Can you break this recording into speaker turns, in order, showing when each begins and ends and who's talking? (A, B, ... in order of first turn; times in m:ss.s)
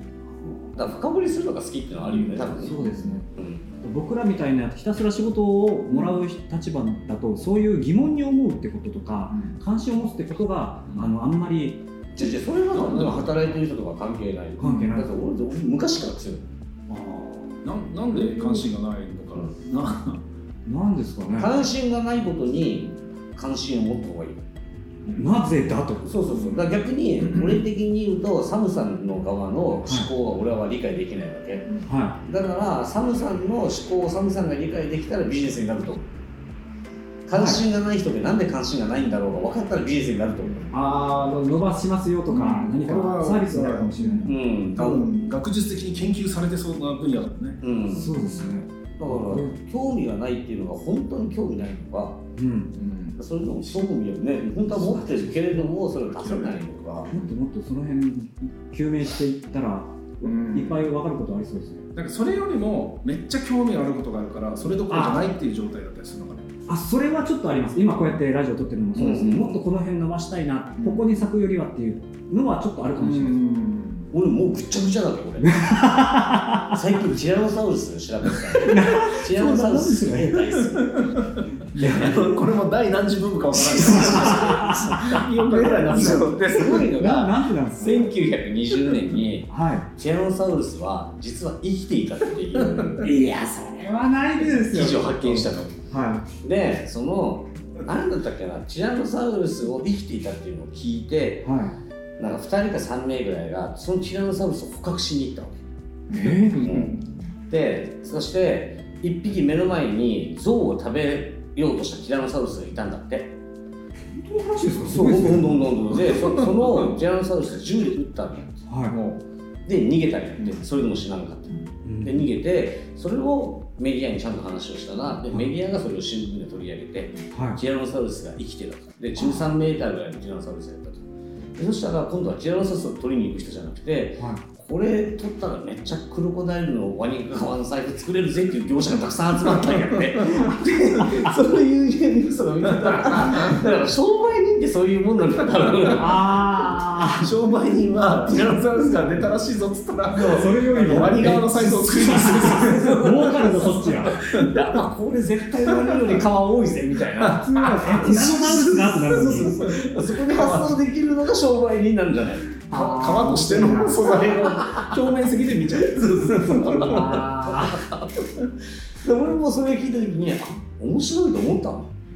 0:00.3-0:00.9 A
0:00.8-0:03.6 B
0:02.4-0:03.2 A
0:03.8-0:11.8 A
0:05.9-0:06.2 C
0:09.3-0:09.5 C
0:12.2-0:16.4 B
0:12.7-0:13.6 C
0:14.6-0:15.3 A
0:14.6-0:14.9 C
0:16.9-0:18.6 A
0:17.6-0:20.2 C
0:20.6-0:21.6 A
0:21.3-0:24.4 B
0:25.0-0:25.3 C
0:25.2-0:26.2 A
0:26.0-0:31.7 B
0:26.3-0:26.7 C
0:27.2-0:27.6 C
0:31.9-0:32.2 A
0:32.2-0:36.1 B
0:37.2-0:40.7 B
0:37.3-0:37.6 A
0:40.7-0:44.3 A
0:42.3-0:47.6 C
0:44.2-0:45.0 B
0:47.6-0:52.2 B
0:47.9-0:49.6 A
0:52.4-0:52.7 A
0:52.7-0:53.9 C
0:53.2-0:57.1 B
0:54.6-0:55.6 A
0:56.0-0:57.3 C
0:57.1-1:01.8 A
1:00.2-1:00.9 C
1:01.9-1:06.5 C
1:04.9-1:05.3 A
1:06.7-1:13.4 A
1:08.9-1:09.6 B
1:10.8-1:11.0 C
1:12.9-1:14.1 C
1:14.1-1:15.7 B
1:15.4-1:16.7 A
1:16.6-1:21.2 B
1:18.5-1:20.6 A
1:20.7-1:26.9 C
1:21.7-1:22.2 A
1:21.7-1:22.2 B
1:23.7-1:24.7 B
1:23.8-1:28.1 A
1:25.5-1:33.1 B
1:29.5-1:29.9 A
1:32.6-1:33.0 C
1:33.0-1:36.3 A
1:34.3-1:35.8 B
1:36.4-1:41.5 B
1:41.4-1:41.8 A
1:42.2-1:45.6 B
1:46.1-1:47.1 C
1:46.1-1:46.7 A
1:46.6-1:46.9 B
1:47.5-1:53.4 B
1:54.1-1:55.6 A
1:54.8-1:58.6 B
1:56.1-1:56.9 C
1:58.7-1:59.0 A
1:58.9-1:59.2 C
1:59.6-2:11.0 B
2:01.8-2:02.3 A
2:07.3-2:07.6 A
2:09.2-2:09.5 A
2:11.6-2:26.2 B
2:14.2-2:14.4 A
2:22.6-2:23.6 C
2:25.8-2:26.1 C
2:26.0-2:27.3 A
2:27.2-2:33.8 C
2:28.3-2:28.9 B
2:30.1-2:34.2 A
2:31.0-2:31.4 B
2:32.3-2:37.4 B
2:35.6-2:36.2 C
2:37.2-2:40.8 C
2:37.3-2:39.5 A
2:39.4-2:42.5 B
2:42.7-2:47.3 C
2:42.7-2:44.1 A
2:44.1-2:45.0 B
2:46.0-2:48.5 B
2:46.4-2:47.8 A
2:49.0-2:51.9 B